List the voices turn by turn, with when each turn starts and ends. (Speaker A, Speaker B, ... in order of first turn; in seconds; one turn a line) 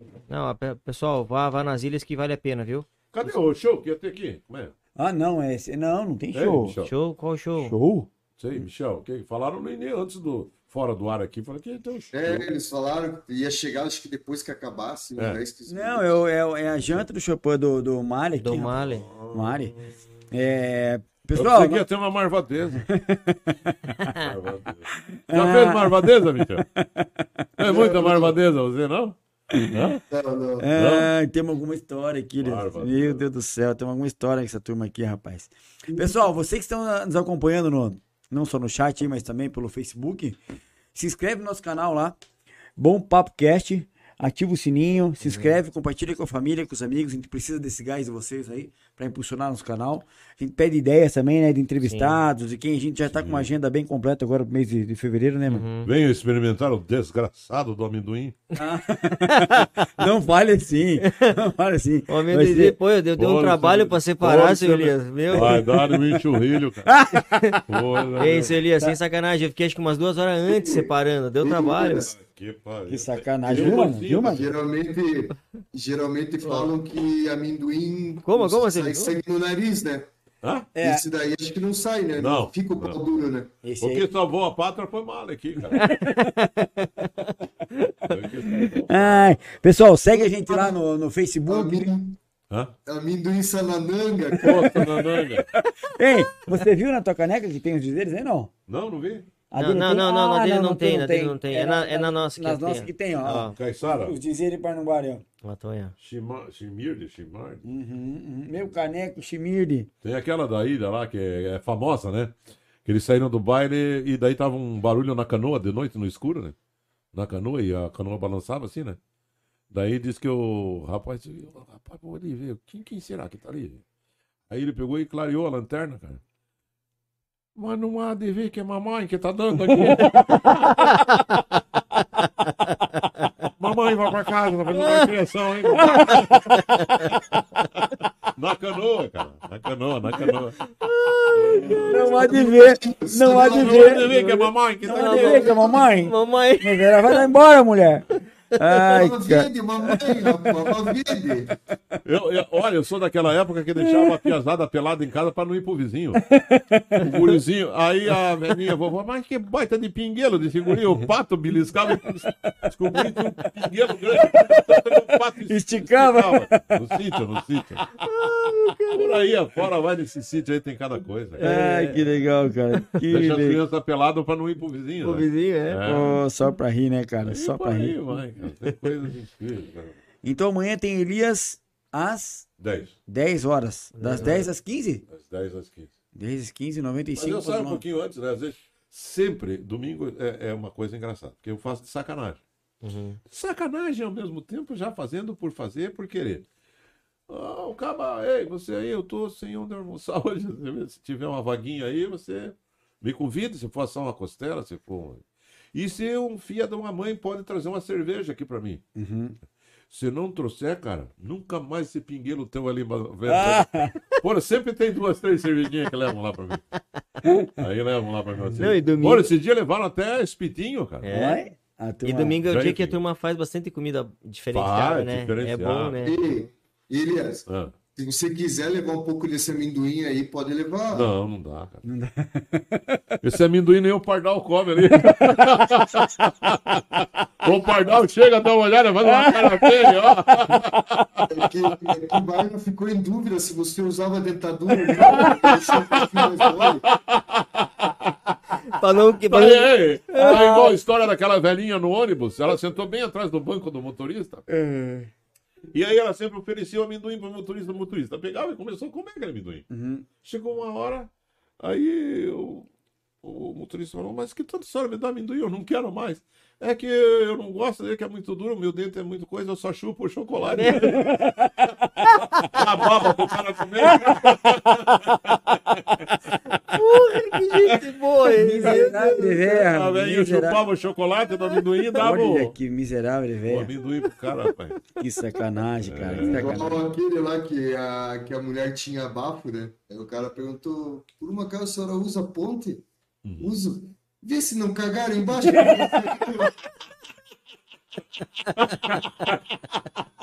Speaker A: 0.3-2.9
Speaker B: 3.1-4.7
Speaker C: 5.0-6.8
Speaker B: 6.3-6.9
Speaker A: 6.8-7.8
Speaker C: 7.6-8.6
Speaker B: 8.4-12.5
Speaker D: 12.1-16.2
Speaker C: 15.7-19.7
Speaker B: 16.8-17.1
Speaker A: 18.4-19.1
Speaker B: 18.8-19.9
Speaker C: 20.3-21.9
Speaker B: 21.3-22.9
Speaker C: 22.8-24.1
Speaker A: 24.0-24.3
Speaker B: 24.1-26.6
Speaker C: 24.9-27.5
Speaker B: 27.6-30.0
Speaker D: 27.6-28.4
Speaker D: 30.1-30.7
Speaker C: 30.6-40.4
Speaker B: 30.7-31.1
Speaker B: 32.4-33.2
Speaker C: 40.9-42.2
Speaker C: 42.8-55.6
Speaker A: 45.2-45.6
Speaker A: 51.8-52.2
Speaker B: 53.1-53.5
Speaker A: 55.5-55.9
Speaker B: 55.8-58.4
Speaker C: 58.5-62.8
Speaker A: 59.2-59.9
Speaker A: 61.0-61.4
Speaker A: 62.1-65.7
Speaker B: 63.1-67.0
Speaker C: 65.3-66.0
Speaker C: 66.8-67.6
Speaker A: 67.2-67.6
Speaker B: 67.7-68.6
Speaker A: 68.2-72.1
Speaker D: 70.5-70.9
Speaker D: 71.4-72.1
Speaker B: 71.9-74.6
Speaker C: 72.9-74.4
Speaker D: 73.5-80.1
Speaker A: 78.2-79.2
Speaker B: 80.4-80.7
Speaker C: 80.7-81.0
Speaker D: 80.8-83.5
Speaker B: 82.1-83.0
Speaker C: 83.6-84.1
Speaker B: 83.8-85.9
Speaker A: 85.8-88.7
Speaker C: 85.9-86.2
Speaker B: 88.1-89.5
Speaker C: 88.8-91.9
Speaker D: 90.1-90.8
Speaker D: 91.5-92.2
Speaker D: 92.8-94.9
Speaker C: 94.4-98.5
Speaker B: 94.4-95.5
Speaker B: 98.7-99.3
Speaker C: 99.5-105.2
Speaker A: 99.6-103.6
Speaker B: 103.5-104.2
Speaker A: 105.4-105.9
Speaker B: 106.0-107.6
Speaker C: 107.6-109.9
Speaker B: 110.0-116.5
Speaker B: 117.1-119.0
Speaker B: 119.7-123.8
Speaker B: 124.5-126.2
Speaker B: 127.5-130.9
Speaker A: 129.9-131.4
Speaker A: 132.6-133.3
Speaker B: 133.6-137.4
Speaker A: 134.7-135.1
Speaker C: 135.7-136.8
Speaker A: 135.7-137.1
Speaker B: 138.3-140.7
Speaker A: 140.8-141.9
Speaker B: 141.2-142.4
Speaker D: 141.6-144.1
Speaker C: 141.8-150.9
Speaker B: 143.3-145.8
Speaker A: 144.9-147.3
Speaker A: 148.6-148.8
Speaker D: 148.9-151.5
Speaker B: 152.0-156.2
Speaker C: 153.8-154.2
Speaker C: 156.2-157.1
Speaker B: 157.0-167.9
Speaker A: 157.0-157.3
Speaker C: 161.9-163.2
Speaker C: 164.2-167.1
Speaker A: 168.0-169.2
Speaker B: 168.9-171.5
Speaker A: 171.4-172.2
Speaker C: 171.4-173.6
Speaker B: 173.1-176.2
Speaker A: 175.0-175.8
Speaker C: 175.8-178.0
Speaker B: 177.2-180.0
Speaker A: 178.7-178.9
Speaker C: 180.2-182.5
Speaker B: 182.6-183.0
Speaker C: 183.1-185.1
Speaker A: 183.9-184.5
Speaker B: 184.1-184.5
Speaker B: 185.1-185.9
Speaker C: 186.1-187.8
Speaker B: 187.2-192.4
Speaker A: 192.8-193.2
Speaker B: 193.3-196.4
Speaker B: 197.3-208.8
Speaker C: 208.9-209.4
Speaker B: 209.9-216.6
Speaker C: 213.3-214.0
Speaker C: 217.2-217.6
Speaker B: 217.6-221.1
Speaker C: 218.4-218.7
Speaker A: 218.6-219.3
Speaker A: 221.0-221.4
Speaker C: 221.1-222.4
Speaker A: 222.0-226.2
Speaker B: 222.4-223.0
Speaker B: 224.5-226.1
Speaker D: 226.0-231.1
Speaker B: 227.5-227.7
Speaker B: 230.9-231.8
Speaker C: 231.8-233.2
Speaker B: 233.2-241.4
Speaker C: 234.9-235.8
Speaker C: 239.1-239.8
Speaker D: 241.3-246.8
Speaker B: 244.9-248.4
Speaker A: 248.7-250.7
Speaker B: 249.3-254.4
Speaker C: 250.2-250.7
Speaker C: 254.5-255.1
Speaker B: 255.7-259.6
Speaker C: 259.7-260.1
Speaker B: 260.2-262.7
Speaker B: 263.2-271.1
Speaker A: 270.4-271.1
Speaker C: 270.6-272.1
Speaker B: 272.4-276.8
Speaker A: 276.7-279.4
Speaker B: 277.5-277.8
Speaker C: 278.3-280.6
Speaker B: 278.7-282.6
Speaker C: 282.0-283.7
Speaker B: 283.5-284.8
Speaker C: 285.0-286.8
Speaker B: 285.8-286.6
Speaker D: 286.2-292.8
Speaker B: 293.2-293.5
Speaker D: 293.4-296.6
Speaker B: 298.6-299.4